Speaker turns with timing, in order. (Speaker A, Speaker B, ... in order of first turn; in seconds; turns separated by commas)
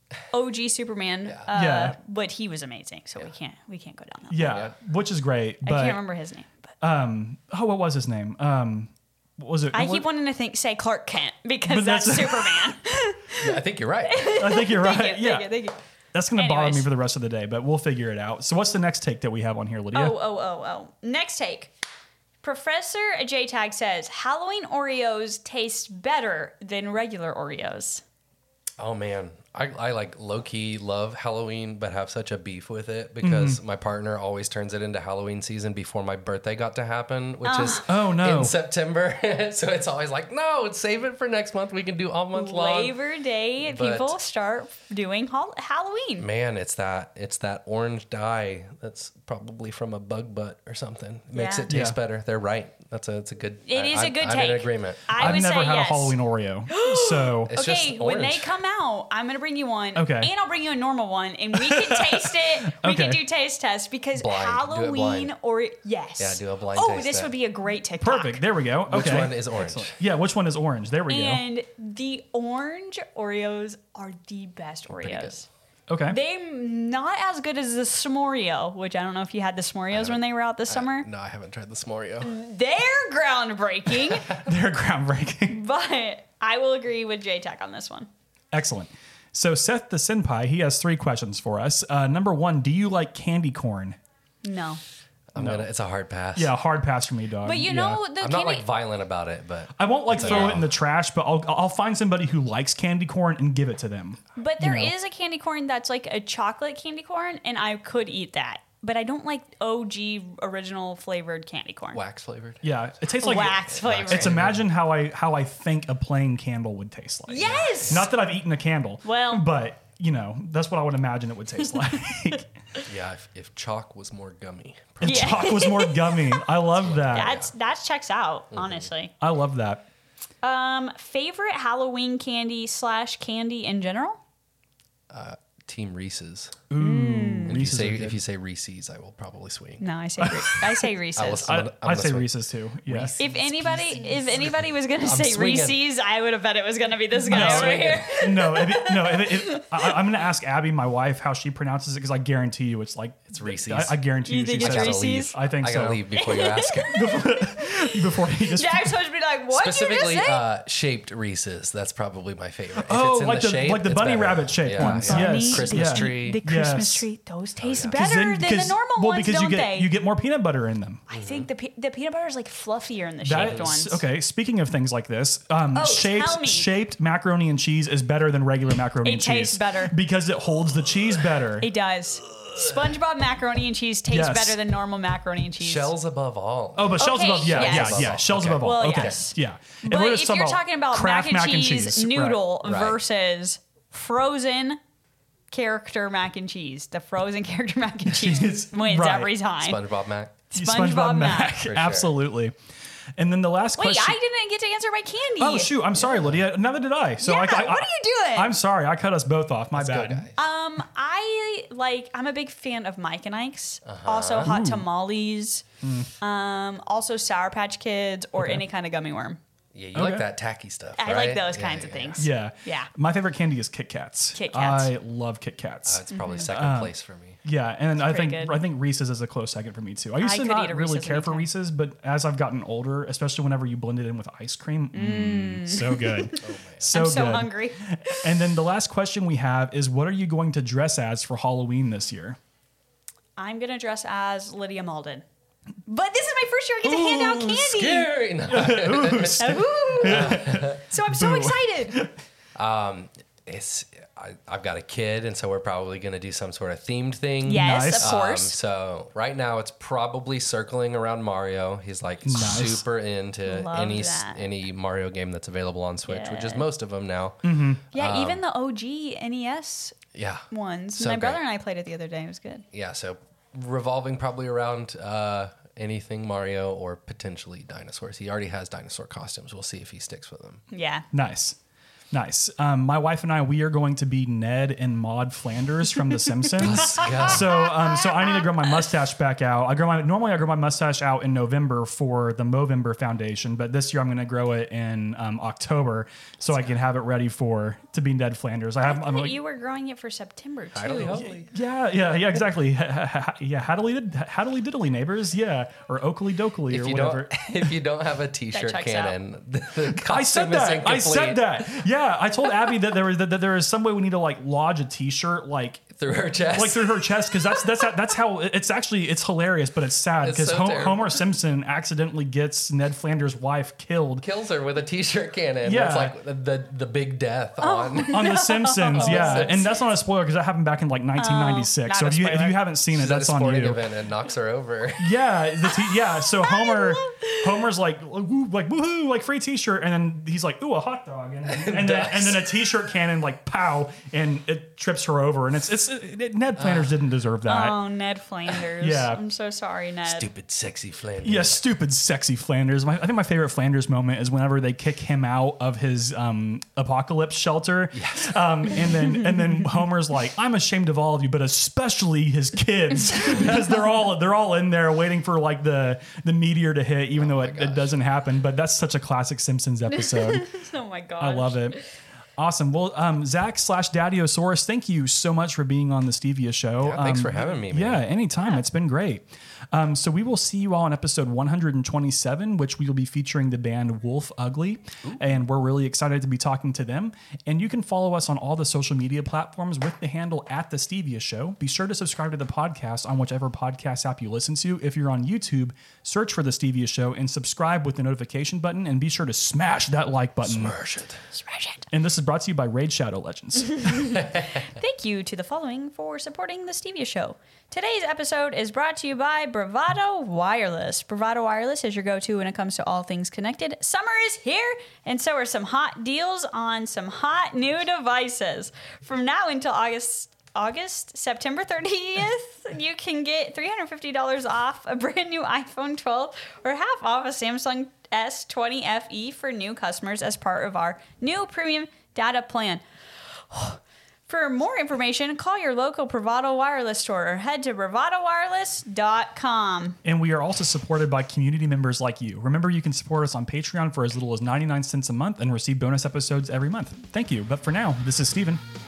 Speaker A: 0.3-4.6, Speaker B: 1.5-1.9, Speaker B: 4.3-6.0, Speaker C: 4.4-4.7, Speaker A: 5.6-6.7, Speaker B: 6.8-10.1, Speaker A: 9.7-15.8, Speaker B: 11.7-12.7, Speaker C: 13.4-14.3, Speaker B: 14.3-15.6, Speaker B: 16.1-20.2, Speaker A: 16.4-16.9, Speaker A: 19.9-21.7, Speaker A: 22.4-28.0, Speaker C: 28.8-43.0, Speaker B: 33.2-33.6, Speaker A: 37.4-37.8, Speaker B: 37.9-38.5, Speaker A: 42.3-46.2, Speaker C: 43.6-44.2, Speaker C: 46.2-55.4, Speaker A: 51.3-51.7, Speaker B: 51.7-52.0, Speaker A: 53.7-56.1, Speaker B: 55.1-57.5, Speaker A: 56.7-68.4, Speaker C: 57.5-58.5, Speaker B: 59.9-60.3, Speaker B: 61.5-63.2, Speaker C: 64.1-65.3, Speaker C: 66.2-67.3, Speaker B: 68.0-71.4, Speaker C: 68.9-70.0, Speaker A: 71.1-75.5, Speaker C: 74.9-75.4, Speaker B: 75.9-76.2, Speaker A: 76.1-81.0, Speaker C: 79.9-82.3, Speaker A: 82.2-84.3, Speaker B: 84.2-85.6, Speaker A: 85.5-88.1, Speaker B: 88.5-94.0, Speaker A: 94.4-94.8, Speaker C: 95.3-96.5, Speaker B: 95.3-95.6, Speaker B: 96.3-98.0, Speaker A: 97.4-98.7, Speaker C: 98.2-100.7, Speaker B: 99.8-104.9, Speaker A: 100.2-100.5, Speaker A: 104.3-112.0, Speaker C: 111.9-112.7, Speaker B: 112.6-122.5, Speaker A: 113.2-114.3, Speaker C: 113.7-114.7, Speaker A: 117.3-118.1, Speaker C: 117.4-118.0, Speaker A: 119.0-119.4, Speaker C: 122.8-125.6, Speaker B: 125.0-127.3, Speaker A: 125.0-126.4, Speaker C: 126.7-127.5, Speaker A: 127.1-129.1, Speaker C: 128.5-128.9, Speaker B: 129.2-129.8, Speaker A: 130.4-134.2, Speaker C: 135.1-136.6, Speaker B: 136.7-138.2, Speaker A: 136.8-137.6, Speaker C: 137.5-139.9, Speaker A: 139.8-141.5, Speaker B: 140.2-140.8, Speaker C: 141.2-142.3, Speaker B: 141.4-143.2, Speaker C: 142.8-145.8, Speaker A: 143.2-149.9, Speaker B: 147.3-156.0, Speaker C: 147.3-148.1, Speaker C: 153.3-154.0, Speaker A: 154.2-155.3, Speaker C: 154.6-156.9, Speaker A: 156.2-160.4, Speaker B: 156.9-159.0, Speaker C: 159.5-166.4, Speaker B: 162.8-167.1, Speaker A: 164.8-169.9, Speaker C: 167.6-167.9, Speaker B: 167.8-171.0, Speaker A: 171.1-174.0, Speaker C: 171.1-171.5, Speaker B: 173.2-181.7, Speaker C: 173.3-173.7, Speaker A: 175.7-176.7, Speaker A: 179.0-179.9, Speaker A: 181.6-185.9, Speaker B: 184.1-184.6, Speaker C: 185.6-189.2, Speaker B: 186.8-192.4, Speaker A: 187.0-194.8, Speaker C: 192.6-193.0, Speaker A: 195.5-199.8, Speaker B: 198.0-199.3, Speaker C: 199.6-200.4, Speaker A: 200.5-201.6, Speaker B: 200.5-202.5, Speaker C: 201.6-202.1, Speaker B: 203.2-204.2, Speaker A: 203.8-206.1, Speaker B: 205.4-210.3, Speaker A: 207.2-208.6, Speaker C: 209.7-210.4, Speaker A: 210.3-215.6, Speaker C: 213.8-214.5, Speaker B: 214.4-214.8, Speaker B: 215.8-216.1, Speaker A: 216.2-219.4, Speaker B: 218.4-218.6, Speaker C: 219.7-222.3, Speaker B: 219.9-220.2, Speaker A: 221.0-222.9, Speaker B: 222.2-242.4, Speaker A: 224.3-224.9, Speaker C: 225.8-227.4, Speaker A: 226.1-226.5, Speaker A: 228.0-228.5, Speaker A: 230.2-231.5, Speaker A: 234.9-236.4, Speaker C: 236.4-236.9, Speaker A: 236.9-238.2, Speaker A: 243.4-245.2, Speaker A: 245.8-248.1, Speaker C: 246.8-250.8, Speaker B: 248.5-252.2, Speaker A: 249.4-252.0, Speaker C: 252.5-268.4, Speaker B: 257.4-258.1, Speaker A: 257.4-258.6, Speaker B: 262.2-262.8, Speaker A: 263.4-264.5, Speaker A: 266.1-266.6, Speaker B: 267.4-267.8, Speaker A: 267.9-270.0, Speaker C: 270.1-271.4, Speaker A: 270.5-272.6, Speaker C: 272.7-280.6, Speaker A: 280.7-281.0, Speaker B: 281.1-281.6, Speaker B: 282.1-299.4, Speaker C: 286.6-287.4, Speaker A: 286.6-288.7, Speaker A: 298.9-301.3, Speaker C: 300.7-301.5, Speaker B: 301.1-307.7, Speaker C: 306.7-311.8, Speaker A: 308.5-309.1, Speaker B: 309.9-315.9, Speaker C: 315.9-317.1, Speaker B: 316.4-324.2, Speaker C: 320.2-321.1, Speaker C: 324.2-328.4, Speaker B: 325.6-326.1, Speaker A: 327.6-329.7, Speaker B: 328.1-333.8, Speaker C: 328.9-329.7, Speaker A: 331.2-332.6, Speaker C: 332.9-335.2, Speaker B: 335.0-347.8, Speaker A: 335.7-337.6, Speaker C: 341.4-342.5, Speaker C: 346.6-346.9, Speaker A: 347.4-350.2, Speaker B: 348.8-349.2, Speaker C: 350.1-351.6, Speaker B: 351.2-370.5, Speaker C: 357.9-358.3, Speaker A: 358.9-359.6, Speaker C: 367.1-367.9, Speaker A: 369.9-371.8, Speaker B: 371.2-371.8, Speaker B: 372.4-400.8, Speaker C: 376.8-378.1, Speaker C: 400.4-401.2, Speaker A: 401.3-401.9, Speaker B: 401.9-404.0, Speaker A: 403.8-432.8, Speaker C: 404.2-404.6, Speaker A: 433.5-440.0, Speaker B: 440.0-448.6